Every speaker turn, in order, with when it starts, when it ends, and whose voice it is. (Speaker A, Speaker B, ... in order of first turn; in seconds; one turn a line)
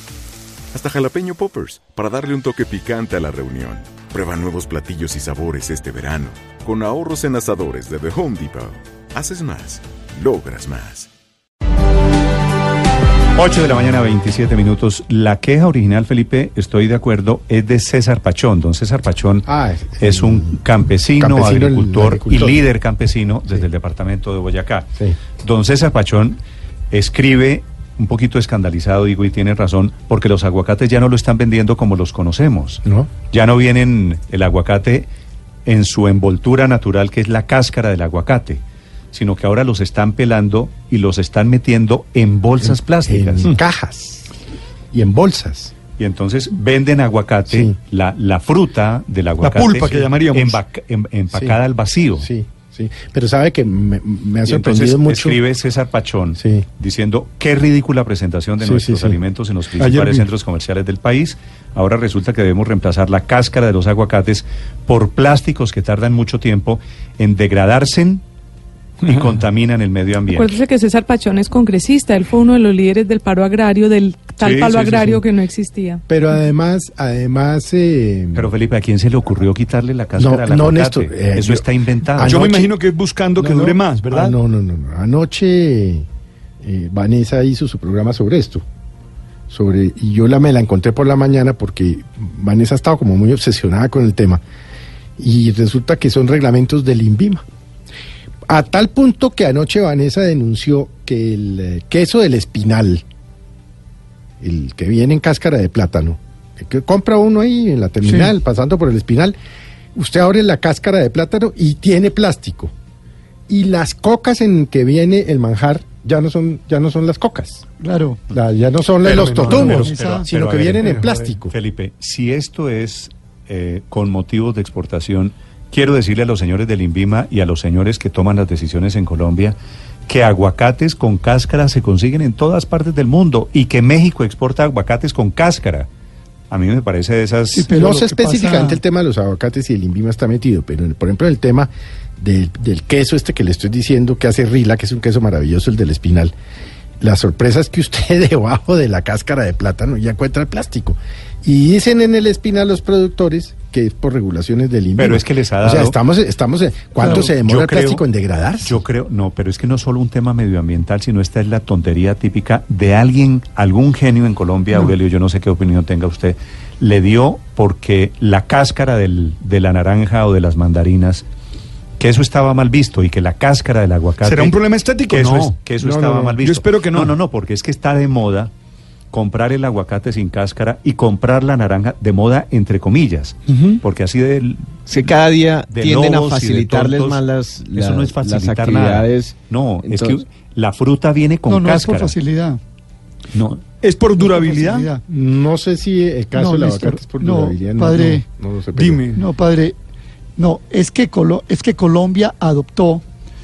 Speaker A: 0.7-11.1
Speaker B: 13.3-19.5
Speaker C: 19.5-20.6
Speaker B: 20.0-26.4
Speaker C: 21.1-22.6
Speaker B: 26.9-35.1
Speaker C: 32.9-33.2
Speaker B: 35.6-43.6
Speaker C: 42.6-44.3
Speaker C: 44.9-45.8
Speaker B: 45.9-52.3
Speaker C: 47.5-47.7
Speaker D: 49.4-50.6
Speaker C: 51.3-51.6
Speaker C: 52.2-55.4
Speaker B: 54.5-68.2
Speaker C: 56.4-56.7
Speaker C: 58.6-59.2
Speaker D: 59.8-60.2
Speaker B: 69.0-70.6
Speaker E: 70.3-76.0
Speaker D: 74.4-75.0
Speaker C: 76.1-78.5
Speaker B: 78.3-82.4
Speaker C: 80.2-82.8
Speaker D: 82.2-84.0
Speaker C: 83.3-86.0
Speaker C: 86.6-88.6
Speaker C: 89.5-94.4
Speaker C: 95.2-97.4
Speaker C: 98.5-103.0
Speaker C: 104.4-109.4
Speaker F: 108.0-108.3
Speaker C: 109.9-112.7
Speaker C: 113.5-117.6
Speaker F: 117.8-118.2
Speaker C: 118.3-121.5
Speaker B: 119.1-129.5
Speaker F: 119.4-120.2
Speaker B: 130.1-135.9
Speaker B: 136.5-137.7
Speaker F: 137.5-138.8
Speaker C: 137.7-146.3
Speaker C: 147.0-158.8
Speaker B: 155.0-156.0
Speaker F: 157.0-157.3
Speaker B: 157.0-158.0
Speaker B: 158.6-171.2
Speaker B: 172.0-178.5
Speaker D: 174.2-175.6
Speaker C: 175.8-176.5
Speaker D: 176.4-177.1
Speaker B: 179.1-184.9
Speaker G: 184.9-190.2
Speaker B: 185.7-187.2
Speaker B: 187.7-192.2
Speaker F: 191.5-192.6
Speaker B: 193.3-193.6
Speaker D: 193.8-194.9
Speaker F: 194.2-195.0
Speaker C: 195.1-199.1
Speaker F: 196.3-198.2
Speaker D: 198.8-199.1
Speaker F: 199.2-199.8
Speaker F: 200.4-203.0